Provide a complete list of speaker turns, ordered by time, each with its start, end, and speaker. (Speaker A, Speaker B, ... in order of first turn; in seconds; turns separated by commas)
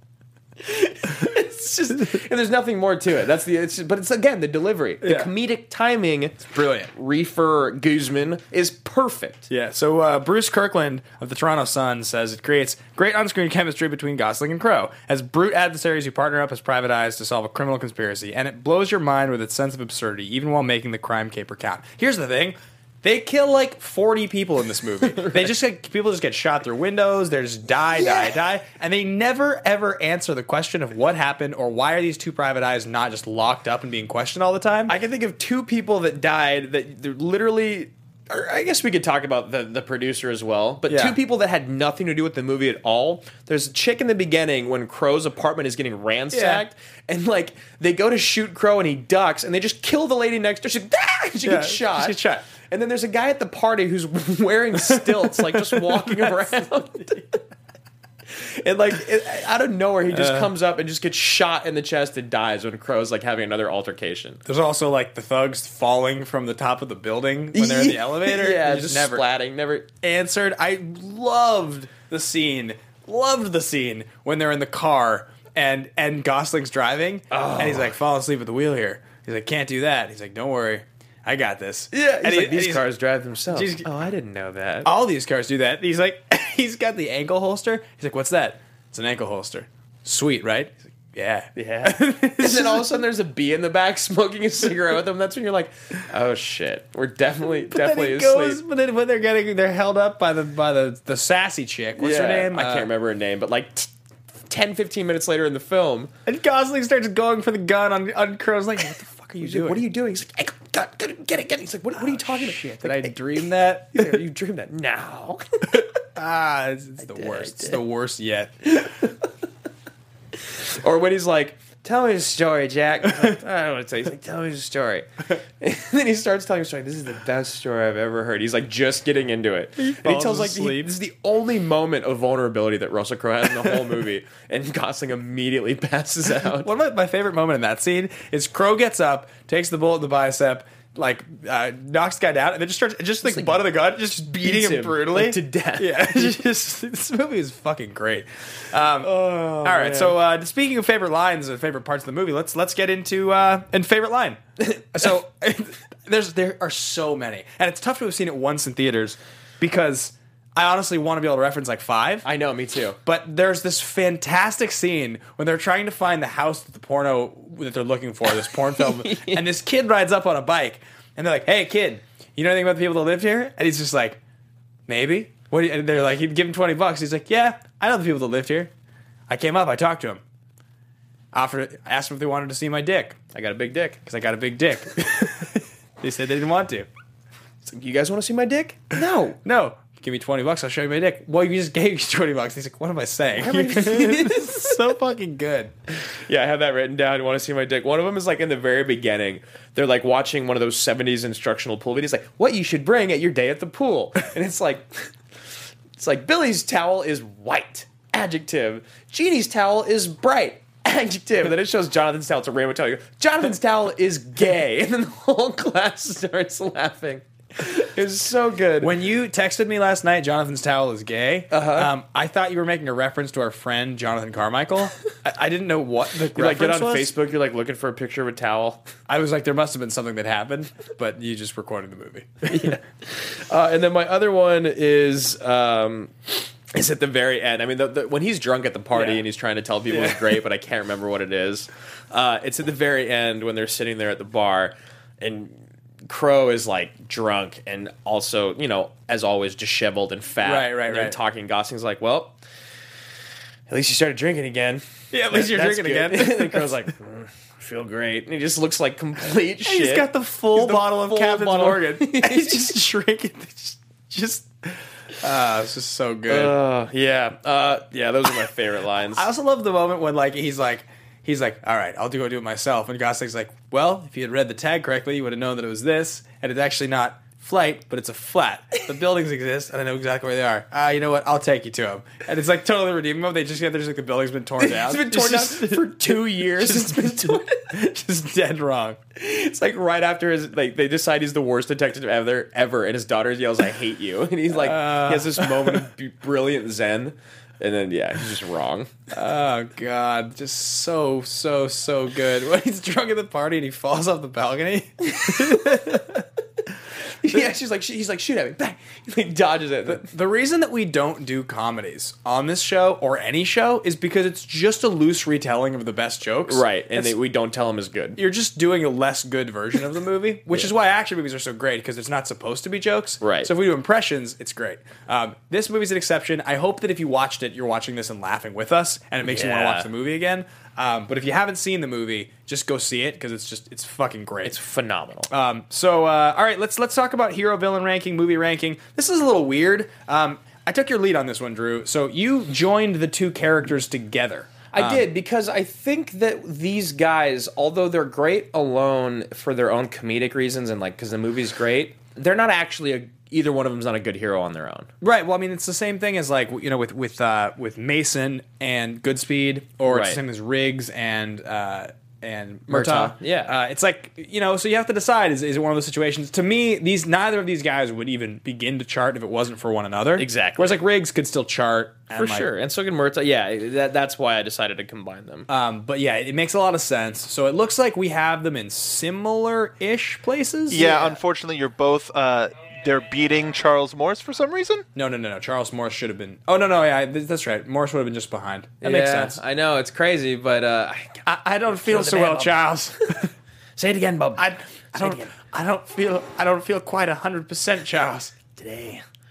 Speaker A: 0.6-9.5, Speaker B: 5.0-5.3, Speaker B: 6.5-6.9, Speaker B: 9.5-34.9, Speaker A: 25.1-25.4, Speaker A: 34.9-52.2, Speaker B: 40.9-41.1, Speaker B: 46.3-46.6, Speaker B: 51.4-52.4, Speaker A: 52.7-57.4, Speaker B: 54.9-56.3, Speaker A: 58.3-64.4, Speaker B: 60.1-60.5, Speaker B: 64.5-69.2, Speaker A: 67.5-69.9, Speaker B: 70.0-82.8, Speaker A: 77.3-77.9, Speaker A: 81.9-84.9, Speaker B: 83.5-83.8, Speaker B: 84.8-92.9, Speaker A: 91.5-98.6, Speaker B: 97.7-102.9, Speaker A: 102.0-103.9, Speaker A: 104.5-106.1, Speaker B: 106.2-109.8, Speaker A: 109.4-115.8, Speaker B: 112.0-114.2, Speaker B: 116.1-118.7, Speaker A: 117.0-117.8, Speaker A: 118.6-119.3, Speaker A: 120.4-125.1, Speaker A: 125.6-136.7, Speaker B: 129.8-130.9, Speaker B: 136.5-149.1, Speaker A: 143.2-143.6, Speaker A: 144.3-146.3, Speaker A: 149.0-150.2, Speaker B: 149.6-154.4, Speaker B: 154.9-162.3, Speaker A: 162.2-163.0, Speaker B: 163.0-174.2, Speaker A: 168.8-169.4, Speaker B: 174.9-178.7, Speaker B: 179.3-180.2, Speaker B: 181.3-183.2, Speaker A: 183.3-184.0, Speaker B: 184.1-186.9, Speaker A: 187.6-189.4, Speaker B: 189.4-195.7, Speaker A: 193.4-194.9, Speaker A: 196.3-205.1, Speaker A: 206.0-219.0, Speaker B: 218.8-227.1, Speaker A: 221.5-221.9, Speaker A: 226.3-228.8, Speaker B: 229.1-232.8, Speaker A: 232.4-245.5, Speaker B: 238.9-239.2, Speaker B: 239.9-240.2, Speaker A: 246.1-252.3, Speaker B: 250.4-251.2, Speaker A: 253.7-262.8, Speaker B: 255.1-256.7, Speaker B: 259.6-266.5, Speaker A: 266.3-269.3, Speaker B: 269.1-289.0, Speaker A: 284.6-287.7, Speaker A: 289.1-298.9, Speaker B: 294.5-295.9, Speaker B: 299.1-306.2, Speaker A: 305.1-306.1, Speaker A: 307.2-310.1, Speaker B: 309.9-317.1, Speaker A: 316.5-318.2, Speaker B: 318.1-334.6, Speaker A: 323.2-323.5, Speaker A: 329.2-329.9, Speaker A: 334.4-335.3, Speaker B: 335.3-345.1, Speaker A: 344.7-354.9, Speaker B: 355.0-372.5, Speaker A: 359.9-360.2, Speaker A: 362.7-363.5, Speaker A: 370.2-370.8, Speaker A: 372.1-375.5, Speaker B: 375.5-380.9, Speaker C: 380.7-384.8, Speaker A: 380.8-381.2, Speaker B: 384.9-389.4, Speaker A: 388.8-393.1, Speaker B: 391.2-393.3, Speaker A: 393.8-395.3, Speaker B: 394.4-398.3, Speaker A: 398.6-399.0